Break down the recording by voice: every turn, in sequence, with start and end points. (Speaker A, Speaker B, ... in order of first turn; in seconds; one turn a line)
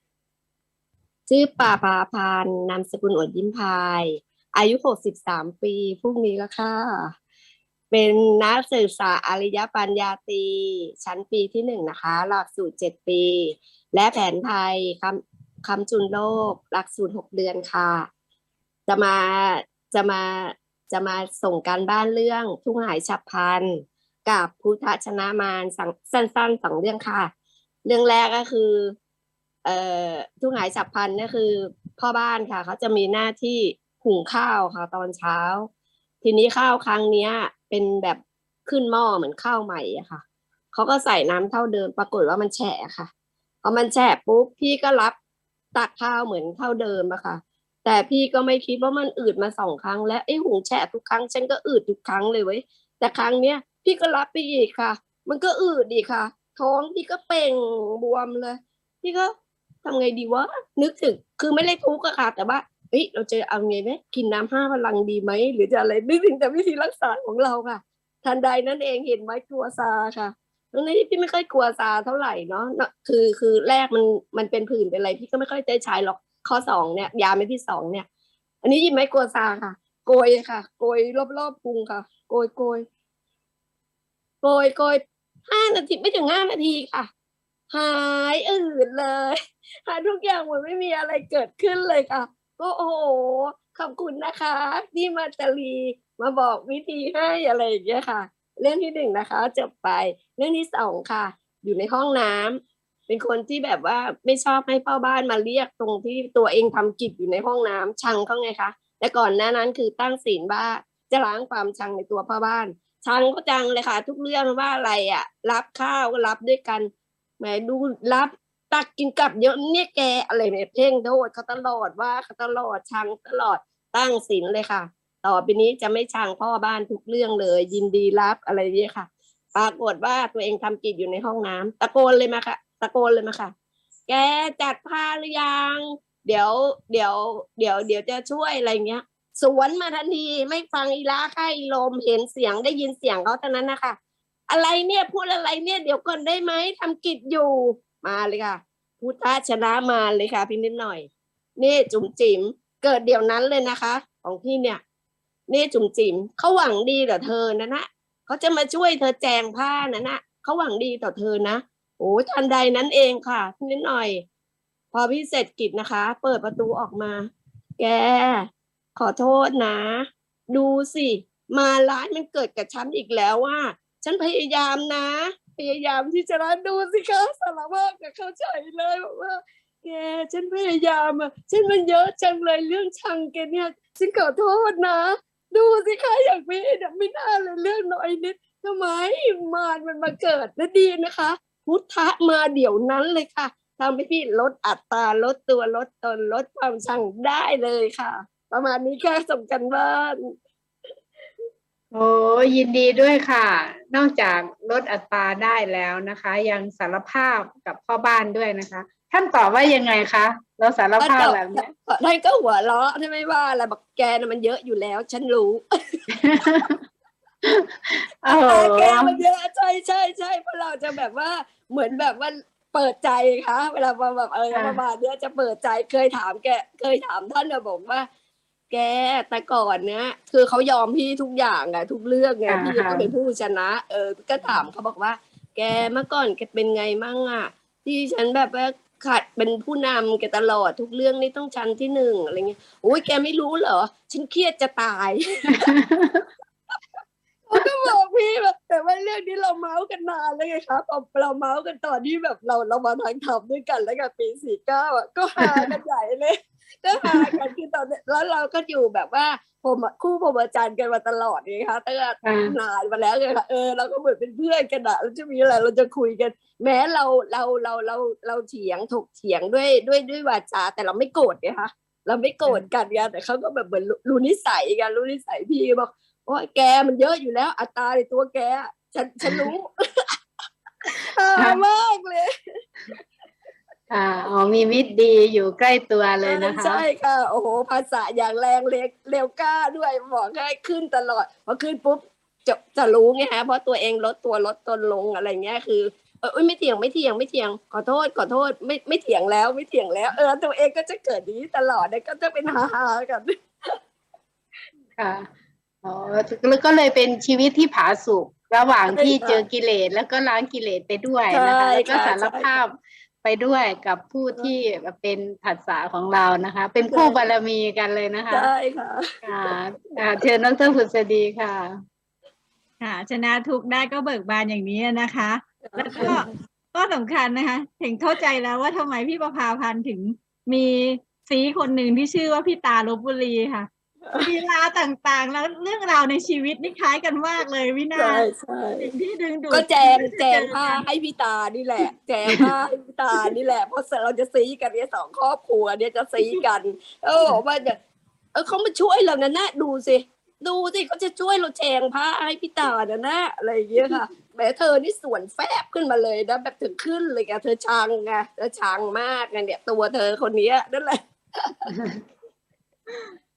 Speaker A: 1.3-7.1
Speaker A: 7.9-18.1
Speaker A: 18.9-27.3
Speaker A: 27.9-28.9
Speaker A: 29.6-35.7
Speaker A: 36.2-43.1
Speaker A: 43.6-45.1
Speaker A: 45.8-59.3
Speaker A: 59.8-78.1
Speaker A: 78.6-82.9
Speaker A: 84.4-87.1
Speaker A: 87.7-116.9
Speaker A: 117.4-133.5
Speaker A: 134.1-144.0
Speaker A: 144.5-154.8
Speaker A: 155.5-164.2
Speaker A: 164.9-200.3
Speaker B: 201.9-211.6
Speaker A: 211.0-215.6
Speaker B: 216.2-216.8
Speaker B: 217.4-219.2
Speaker A: 218.3-228.1
Speaker B: 224.5-224.8
Speaker A: 228.7-245.7
Speaker B: 232.5-233.1
Speaker B: 245.7-246.3
Speaker A: 247.5-279.7
Speaker B: 255.4-255.7
Speaker B: 257.1-257.3
Speaker B: 262.2-262.6
Speaker A: 281.0-282.3
Speaker B: 281.4-281.6
Speaker B: 283.9-286.9
Speaker A: 286.2-303.8
Speaker B: 305.0-305.3
Speaker B: 305.8-318.5
Speaker A: 308.9-309.4
Speaker A: 311.3-312.6
Speaker A: 316.9-317.2
Speaker A: 318.3-319.1
Speaker B: 319.2-321.7
Speaker C: 322.8-340.8
Speaker A: 325.7-326.2
Speaker A: 337.9-338.9
Speaker A: 339.5-347.8
Speaker A: 348.3-361.7
Speaker B: 361.7-362.0